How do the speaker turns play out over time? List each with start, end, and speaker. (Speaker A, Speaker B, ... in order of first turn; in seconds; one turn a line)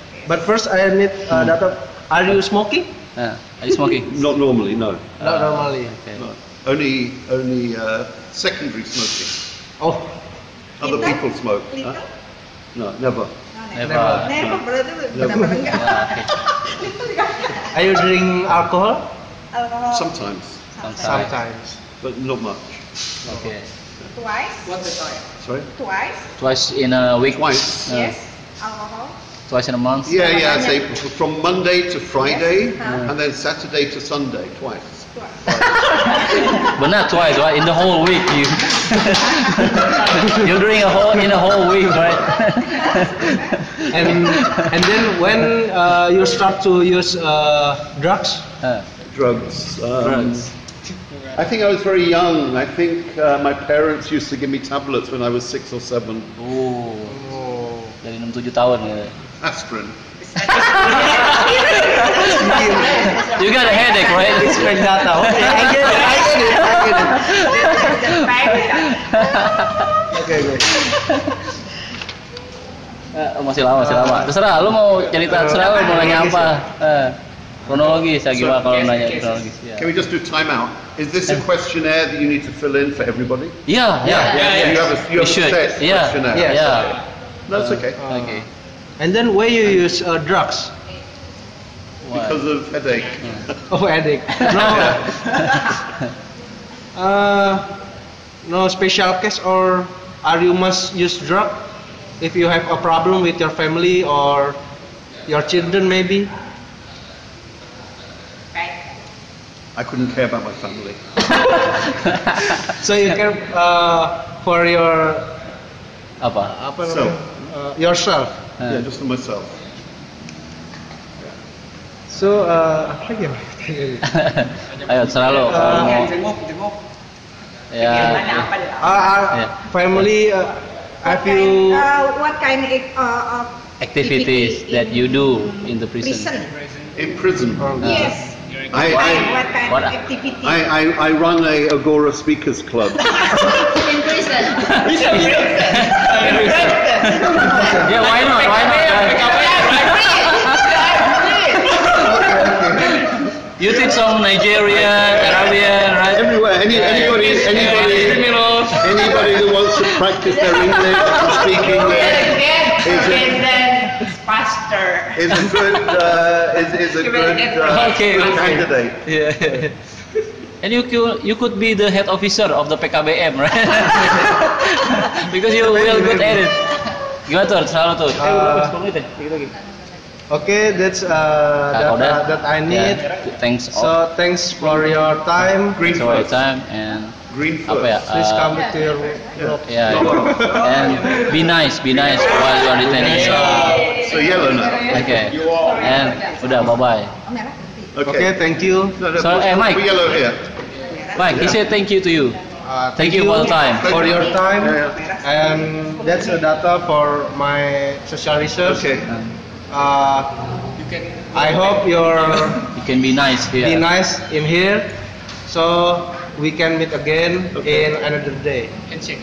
Speaker A: 0.3-2.9
Speaker B: 3.2-4.2
Speaker C: 3.9-5.3
Speaker B: 5.2-6.2
Speaker A: 5.2-6.0
Speaker C: 6.2-9.4
Speaker A: 9.8-10.2
Speaker C: 10.8-12.0
Speaker D: 10.8-12.1
Speaker C: 12.7-13.3
Speaker D: 13.6-17.9
Speaker B: 13.7-14.4
Speaker A: 13.8-14.4
Speaker C: 14.4-15.5
Speaker A: 15.2-15.7
Speaker B: 15.6-16.3
Speaker A: 17.7-19.1
Speaker D: 19.5-20.1
Speaker C: 19.9-20.6
Speaker D: 20.8-21.2
Speaker B: 20.8-21.3
Speaker A: 21.1-21.8
Speaker C: 22.0-22.9
Speaker B: 23.3-23.7
Speaker D: 24.1-24.8
Speaker E: 24.7-25.2
Speaker C: 25.4-25.7
Speaker D: 25.8-26.3
Speaker B: 26.4-28.1
Speaker C: 27.2-27.9
Speaker D: 27.9-29.1
Speaker B: 29.5-30.2
Speaker C: 30.1-35.9
Speaker D: 30.1-30.9
Speaker D: 32.2-33.0
Speaker B: 32.8-33.1
Speaker D: 35.2-36.5
Speaker B: 36.1-45.0
Speaker D: 42.8-43.5
Speaker A: 43.9-48.5
Speaker C: 49.1-50.5
Speaker B: 50.0-50.5
Speaker C: 51.3-56.4
Speaker B: 56.4-57.3
Speaker A: 57.1-58.0
Speaker B: 58.0-59.1
Speaker C: 59.4-60.0
Speaker E: 60.3-64.1
Speaker B: 60.5-69.9
Speaker A: 62.2-63.3
Speaker A: 64.2-67.9
Speaker E: 65.8-66.3
Speaker E: 67.3-69.3
Speaker A: 70.1-70.9
Speaker B: 70.8-71.4
Speaker B: 73.1-79.9
Speaker A: 73.8-74.3
Speaker A: 75.1-76.5
Speaker C: 79.8-83.6
Speaker B: 83.7-87.0
Speaker A: 84.0-84.5
Speaker C: 84.2-86.9
Speaker A: 86.3-86.7
Speaker C: 87.5-88.0
Speaker B: 87.5-88.5
Speaker A: 88.0-88.4
Speaker A: 89.0-90.8
Speaker B: 92.0-92.4
Speaker C: 92.1-93.5
Speaker A: 93.7-95.7
Speaker B: 94.3-95.7
Speaker C: 94.7-95.0
Speaker A: 97.0-97.8
Speaker A: 98.4-104.6
Speaker A: 105.3-106.3
Speaker E: 108.5-108.8
Speaker C: 109.8-111.2
Speaker B: 111.5-112.5
Speaker A: 112.6-115.4
Speaker B: 116.2-116.5
Speaker A: 116.5-118.5
Speaker C: 116.8-117.3
Speaker C: 118.7-119.6
Speaker A: 122.1-124.1
Speaker B: 124.1-126.1
Speaker A: 125.4-126.1
Speaker E: 125.7-126.8
Speaker B: 127.7-128.5
Speaker E: 127.8-129.0
Speaker A: 128.8-131.9
Speaker D: 131.1-136.5
Speaker B: 133.8-136.3
Speaker C: 136.9-137.9
Speaker A: 137.6-138.1
Speaker B: 137.8-138.2
Speaker D: 137.8-140.7
Speaker C: 138.7-139.4
Speaker B: 139.7-139.9
Speaker C: 140.4-143.5
Speaker D: 143.8-144.1
Speaker B: 144.5-151.4
Speaker E: 144.8-147.9
Speaker E: 148.6-151.9
Speaker C: 151.8-153.3
Speaker B: 152.8-159.3
Speaker C: 154.8-155.4
Speaker C: 156.1-163.7
Speaker E: 160.6-165.4
Speaker C: 165.1-169.1
Speaker E: 166.9-168.6
Speaker B: 167.7-169.7
Speaker B: 170.6-179.5
Speaker A: 175.6-176.4
Speaker A: 178.2-178.8
Speaker A: 180.3-183.1
Speaker B: 181.7-184.0
Speaker A: 183.7-185.8
Speaker C: 185.7-186.4
Speaker B: 185.8-188.6
Speaker C: 187.3-188.1
Speaker A: 188.1-191.2
Speaker C: 189.3-190.4
Speaker B: 189.7-193.9
Speaker C: 191.9-195.3
Speaker A: 193.0-193.8
Speaker B: 194.9-197.1
Speaker D: 195.4-196.0
Speaker E: 195.7-196.4
Speaker D: 197.2-197.9
Speaker C: 197.9-200.5
Speaker A: 198.0-199.0
Speaker B: 199.1-199.9
Speaker B: 201.1-202.4
Speaker C: 201.2-201.6
Speaker A: 202.6-208.8
Speaker B: 203.0-203.9
Speaker C: 203.8-205.0
Speaker C: 208.6-209.1
Speaker A: 209.7-210.4
Speaker A: 211.3-212.7
Speaker B: 212.7-213.8
Speaker A: 213.6-218.7
Speaker C: 217.6-217.9